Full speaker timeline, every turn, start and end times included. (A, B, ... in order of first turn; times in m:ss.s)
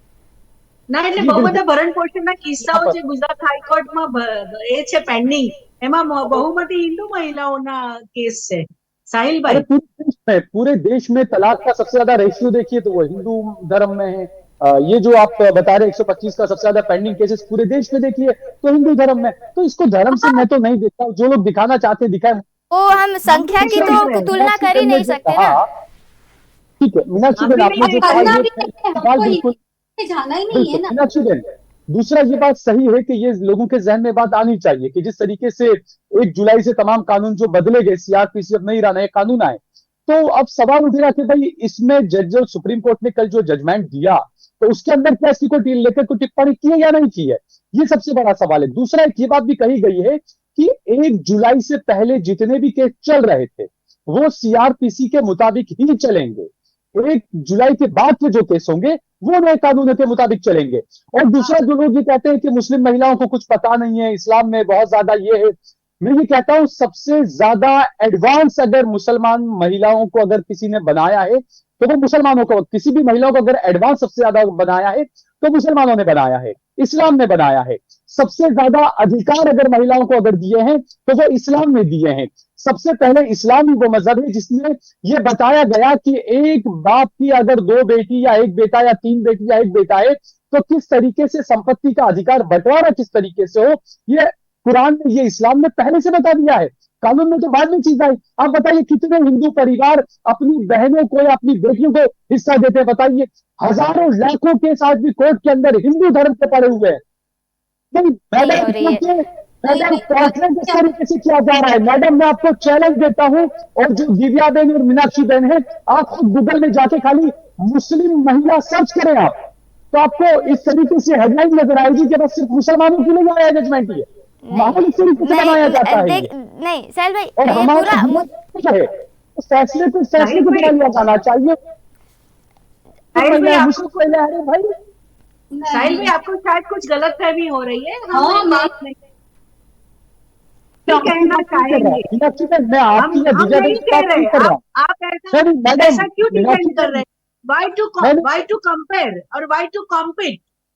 0:00.9-0:09.6 A
0:01.2-0:01.6 B
0:02.6-0:03.0 B
0:09.5-0:22.4 B
0:20.1-0:20.4 C
0:22.7-0:25.6 D
0:23.3-0:24.3 A
0:23.6-0:25.7 B
0:26.8-0:29.6 B
0:27.4-0:28.4 A
0:27.8-0:30.9 C
0:30.5-1:47.0 B
1:47.9-1:59.3 B
1:48.4-1:49.0 D
1:59.9-2:06.3 B
2:04.4-2:08.3 D
2:07.4-2:11.6 B
2:10.2-2:10.7 A
2:13.1-2:14.7 B
2:13.2-2:13.9 A
2:15.5-2:16.1 C
2:15.7-2:19.0 A
2:18.1-2:18.7 C
2:20.9-2:22.0 A
2:20.9-2:24.6 B
2:23.0-2:30.4 A
2:25.3-2:27.0 B